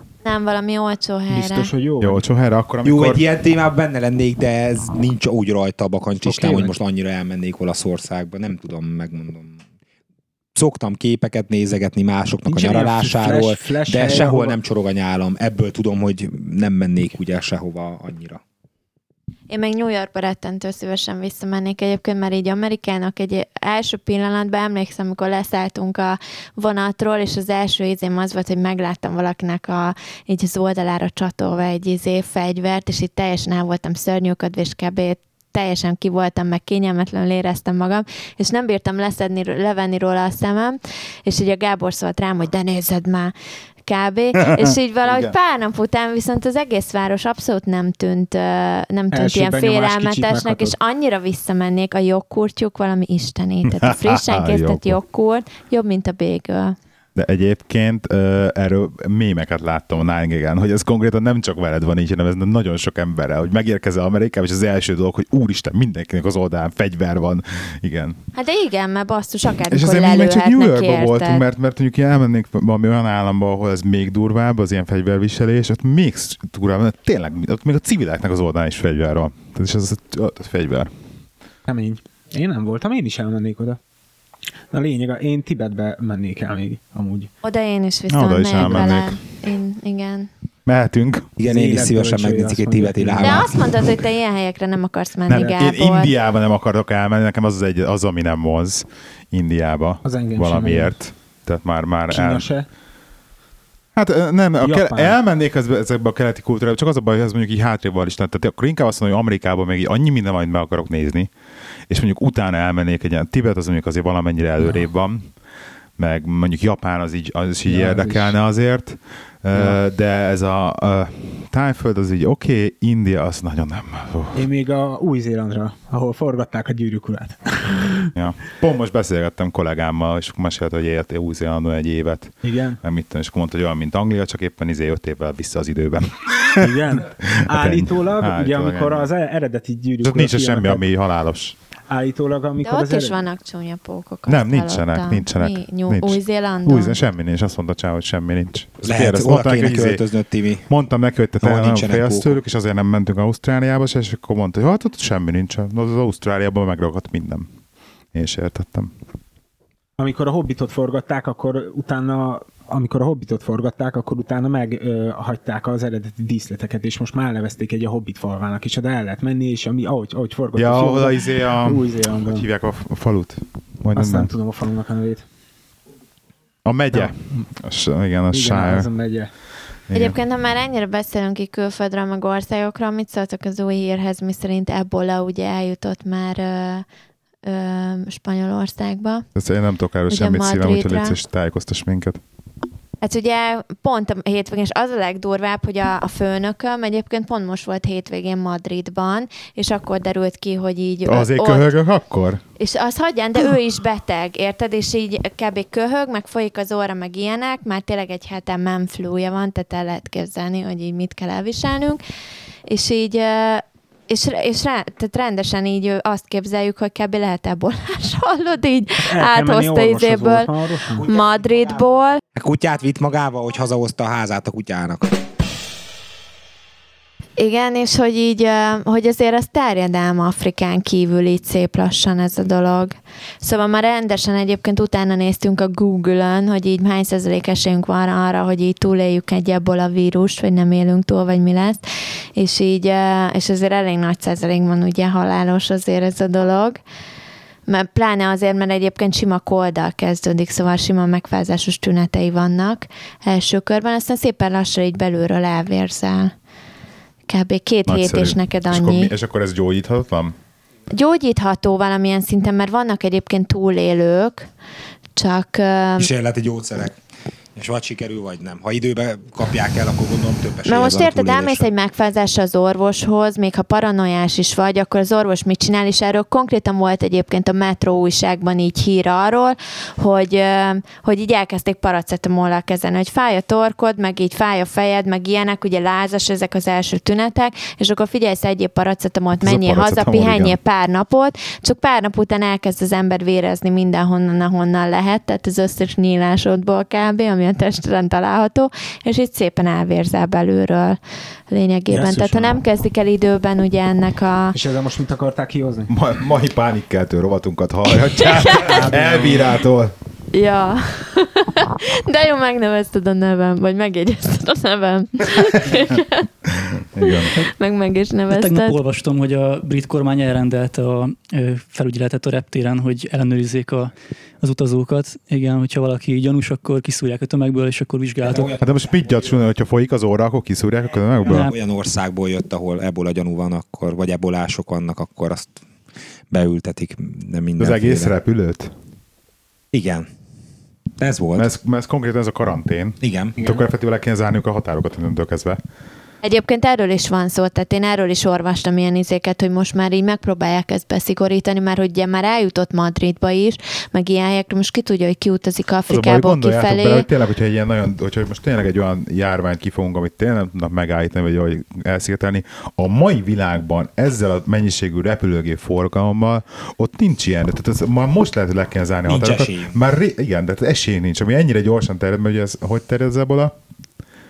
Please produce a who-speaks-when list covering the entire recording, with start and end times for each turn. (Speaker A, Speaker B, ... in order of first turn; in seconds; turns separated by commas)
Speaker A: 0.2-1.7, Speaker B: 1.3-2.2, Speaker C: 2.0-3.2, Speaker D: 2.8-9.6, Speaker B: 6.2-6.7, Speaker D: 10.6-18.4, Speaker B: 12.5-14.6, Speaker A: 19.5-43.3, Speaker A: 43.9-56.8, Speaker C: 44.4-45.3, Speaker B: 49.1-50.7, Speaker C: 53.7-55.0, Speaker C: 57.2-68.2, Speaker A: 68.3-71.5, Speaker C: 69.7-80.9, Speaker B: 81.7-83.8, Speaker B: 84.7-87.3, Speaker A: 87.4-90.3, Speaker C: 88.1-89.2, Speaker C: 90.7-91.3, Speaker D: 91.4-93.8, Speaker B: 91.4-93.5, Speaker A: 93.2-96.1, Speaker C: 95.3-102.5, Speaker B: 95.3-95.6, Speaker B: 100.0-100.9, Speaker B: 102.1-102.7, Speaker C: 104.0-111.3, Speaker B: 104.6-105.2, Speaker C: 111.9-115.3, Speaker C: 116.0-124.5, Speaker B: 117.7-118.3, Speaker B: 119.5-119.8, Speaker B: 124.3-128.1, Speaker C: 128.2-139.1, Speaker B: 132.4-132.8, Speaker B: 136.6-140.8, Speaker C: 140.0-141.6, Speaker B: 141.9-143.2, Speaker A: 142.6-147.0, Speaker C: 144.3-150.0, Speaker D: 148.8-150.7, Speaker C: 150.7-157.5, Speaker D: 151.4-152.4, Speaker C: 158.1-158.9, Speaker B: 160.0-172.5, Speaker C: 170.6-174.3, Speaker B: 173.9-175.2, Speaker C: 176.7-178.9, Speaker B: 176.9-177.5, Speaker B: 178.3-179.3, Speaker C: 179.9-180.2, Speaker A: 179.9-186.9, Speaker A: 187.4-189.3, Speaker C: 189.4-192.2, Speaker A: 190.1-191.2, Speaker A: 193.0-201.8, Speaker C: 201.1-202.4, Speaker A: 202.6-212.0, Speaker A: 212.7-222.2, Speaker B: 219.1-221.1, Speaker D: 220.9-221.8, Speaker D: 222.3-225.2, Speaker A: 227.4-241.8, Speaker A: 242.4-246.8, Speaker A: 247.7-256.3, Speaker A: 257.3-259.1, Speaker C: 257.9-260.4, Speaker A: 260.9-264.5, Speaker A: 265.2-266.1, Speaker D: 266.0-267.0, Speaker D: 267.6-271.7, Speaker A: 270.7-304.6, Speaker C: 289.4-290.5, Speaker B: 301.9-302.6, Speaker B: 304.5-305.9, Speaker C: 305.9-309.9, Speaker A: 308.0-308.8, Speaker B: 308.6-309.6, Speaker A: 310.3-316.3, Speaker C: 316.5-317.3, Speaker A: 317.0-318.8, Speaker E: 318.3-328.6, Speaker D: 328.2-329.2, Speaker C: 328.6-331.5, Speaker D: 331.3-335.5, Speaker E: 331.3-331.5, Speaker D: 336.3-338.1, Speaker C: 337.6-338.7, Speaker D: 339.7-340.1, Speaker D: 341.0-341.5, Speaker C: 341.4-345.6, Speaker D: 343.0-343.4, Speaker A: 346.2-357.1, Speaker C: 355.9-373.5, Speaker D: 369.1-369.8